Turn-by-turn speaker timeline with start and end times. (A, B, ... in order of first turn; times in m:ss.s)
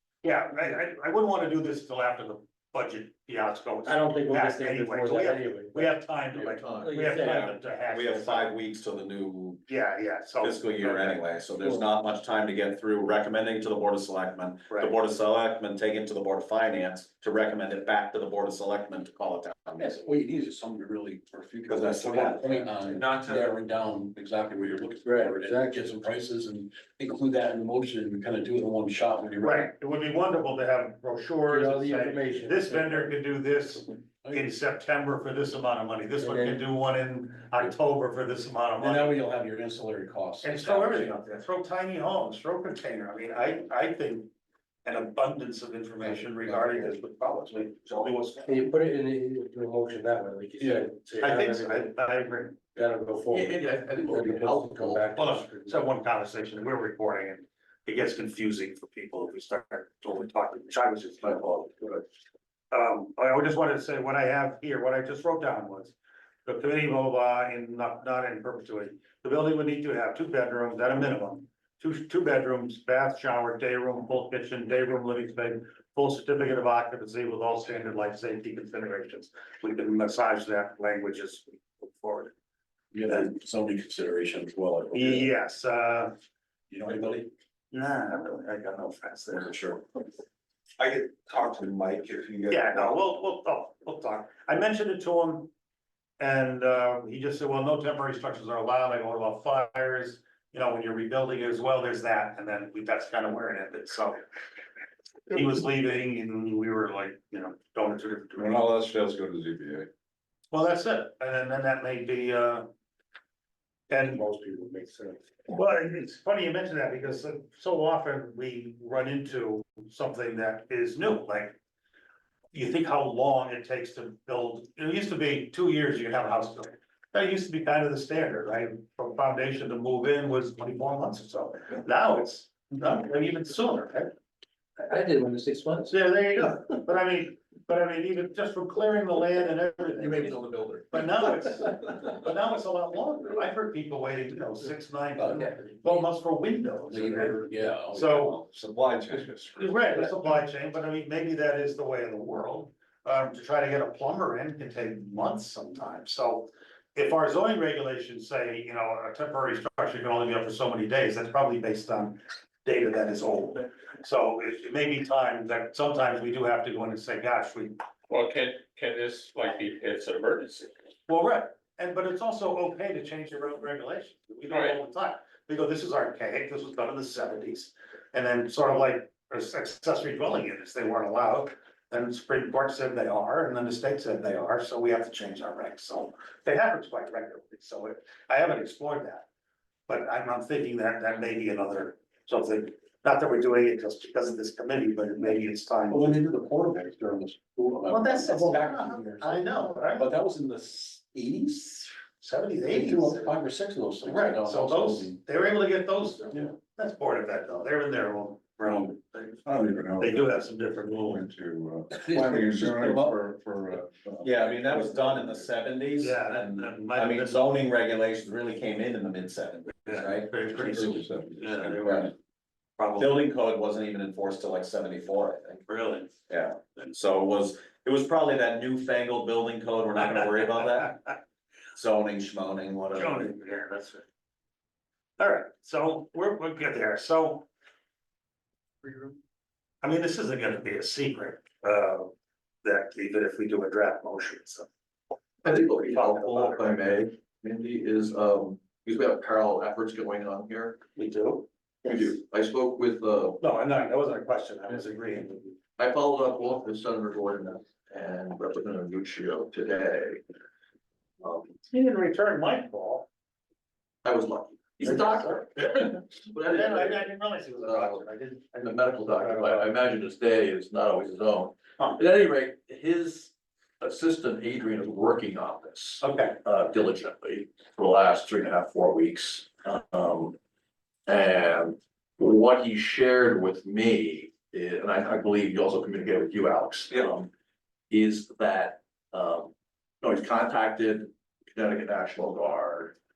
0:00.2-0:08.5 A
0:03.8-0:06.0 B
0:06.3-0:07.0 C
0:06.8-0:07.6 B
0:07.3-0:09.7 D
0:09.7-0:11.3 A
0:10.4-0:20.0 D
0:14.7-0:14.9 A
0:19.8-0:29.7 E
0:21.7-0:22.4 D
0:22.1-0:22.5 A
0:23.0-0:23.5 F
0:25.0-0:25.8 B
0:29.4-0:39.2 A
0:31.5-0:33.1 B
0:36.2-0:36.6 B
0:38.8-0:41.2 E
0:40.4-0:44.3 A
0:44.8-0:48.7 A
0:46.2-0:47.0 E
0:48.4-0:51.9 B
0:50.6-0:50.9 E
0:51.2-0:52.6 A
0:52.7-0:55.8 B
0:53.3-0:55.2 C
0:55.2-1:02.0 A
1:02.7-1:05.9 A
1:06.4-1:22.3 A
1:22.9-1:25.3 E
1:24.9-1:26.1 A
1:26.7-1:27.3 E
1:27.7-1:29.8 A
1:30.8-1:32.9 G
1:32.5-1:35.5 A
1:36.2-1:44.2 A
1:45.3-1:48.6 A
1:48.4-1:49.9 G
1:50.5-1:52.7 A
1:53.9-1:54.2 A
1:54.2-1:55.1 B
1:55.5-2:01.6 A
2:02.5-2:14.1 A
2:14.8-2:15.9 B
2:15.9-2:20.4 A
2:20.4-2:20.8 C
2:20.9-2:28.4 A
2:25.2-2:26.1 E
2:26.9-2:28.3 E
2:28.2-2:29.8 G
2:29.6-2:47.8 A
2:48.1-2:50.7 F
2:51.1-3:09.3 A
2:54.5-2:54.8 F
3:09.9-3:16.2 A
3:15.9-3:22.0 E
3:17.9-3:20.1 A
3:22.2-3:23.4 A
3:22.7-3:25.2 E
3:24.0-3:29.4 A
3:29.4-3:35.5 G
3:30.0-3:31.2 A
3:31.9-3:33.2 E
3:34.2-3:40.3 D
3:36.0-3:37.5 A
3:39.8-3:42.1 A
3:40.5-3:42.1 G
3:42.8-3:43.2 A
3:43.0-3:45.6 D
3:45.7-3:46.1 A
3:46.3-3:51.0 D
3:51.7-3:53.3 D
3:52.9-3:54.1 A
3:55.2-3:57.5 A
3:59.8-4:02.1 A
4:02.6-4:04.7 A
4:05.4-4:06.8 A
4:05.4-4:10.8 C
4:11.0-4:11.5 A
4:11.8-4:13.4 C
4:13.4-4:15.6 A
4:15.8-4:20.2 C
4:21.2-4:21.6 C
4:21.7-4:23.1 A
4:24.0-4:28.1 C
4:24.8-4:25.4 A
4:26.5-4:29.7 A
4:28.6-4:40.4 C
4:36.0-4:36.4 A
4:41.1-4:47.3 C
4:47.9-4:52.9 C